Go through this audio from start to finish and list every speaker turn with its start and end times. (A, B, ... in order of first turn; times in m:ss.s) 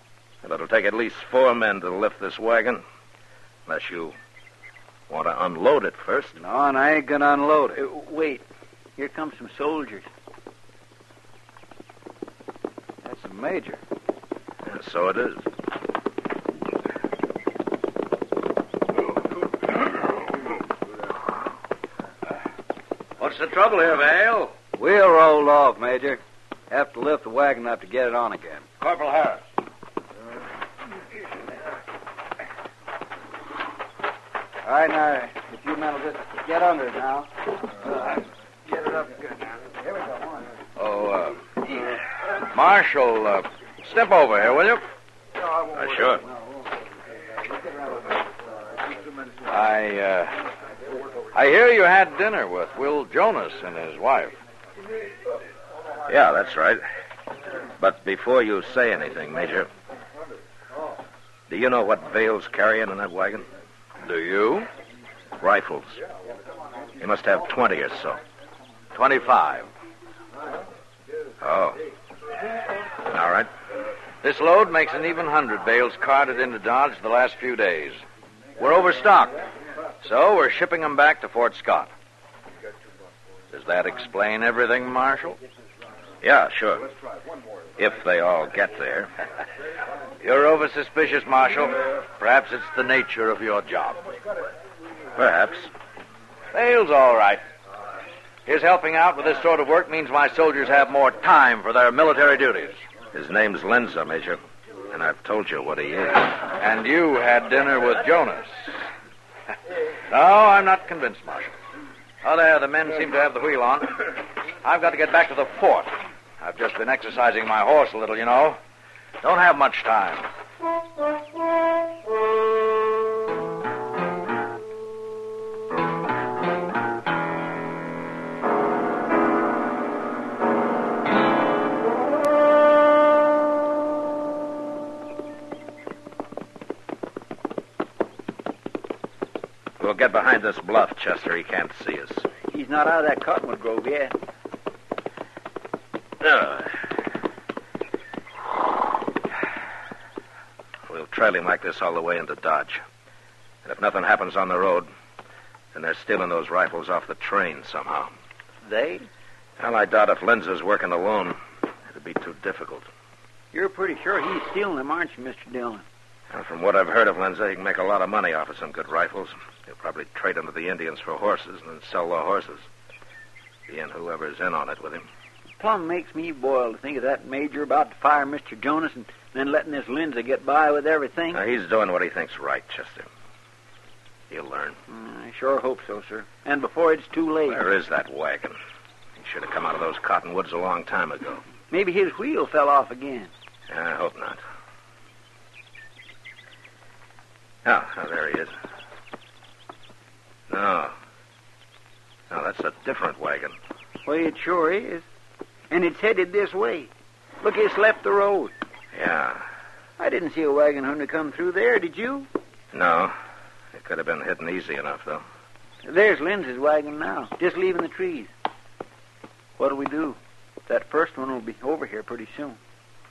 0:00.4-0:02.8 A
0:03.7-0:04.2 A
0:05.1-0:06.4 A
0:06.4-0:07.8 B
0:07.8-0:08.4 C
0:09.0-0:10.1 C
0:13.0-0:13.8 B
0:14.6-0:15.4 A
0:23.2-0:24.6 D
0:24.8-0:28.7 B
0:28.8-0:29.4 D
0:34.6-0:40.4 B
0:40.8-0:41.8 D
0:42.4-0:44.8 D
0:45.7-0:46.2 A
0:49.5-0:50.4 D
0:51.3-0:54.4 D
0:56.1-0:56.8 A
0:57.8-0:59.7 A
1:01.5-1:03.5 A
1:04.0-1:04.7 D
1:05.4-1:06.0 A
1:07.0-1:08.2 A
1:08.9-1:09.7 D
1:11.4-1:11.8 A
1:13.1-1:13.5 A
1:14.2-1:18.0 D
1:18.6-1:19.4 D
1:20.0-1:21.9 D
1:23.5-1:25.4 D
1:26.2-1:26.9 A
1:27.8-1:29.1 A
1:30.2-1:34.0 D
1:35.2-1:35.7 A
1:36.5-1:37.4 D
1:38.5-1:42.8 D
1:43.1-1:44.4 A
1:44.9-1:46.4 A
1:46.6-1:48.7 D
1:50.1-1:51.6 D
1:52.2-1:58.6 D
1:59.2-2:00.3 D
2:19.8-2:22.3 A
2:22.5-2:24.2 C
2:26.2-2:26.7 A
2:30.9-2:32.8 A
2:33.6-2:34.9 A
2:35.7-2:38.1 A
2:38.6-2:39.1 C
2:39.6-2:42.9 A
2:43.5-2:45.8 C
2:46.3-2:52.7 A
2:53.7-2:55.0 A
2:55.6-3:01.4 C
3:01.3-3:03.1 A
3:04.3-3:04.8 A
3:04.9-3:07.7 C
3:07.5-3:08.6 A
3:09.2-3:11.4 A
3:11.7-3:13.3 C
3:13.7-3:14.4 A
3:17.6-3:18.5 A
3:20.5-3:20.9 A
3:22.3-3:23.6 A
3:24.1-3:25.0 C
3:25.7-3:26.9 C
3:27.4-3:28.5 C
3:28.9-3:29.4 A
3:30.0-3:32.3 C
3:32.7-3:33.1 A
3:33.7-3:35.2 A
3:35.8-3:38.3 C
3:39.6-3:42.6 C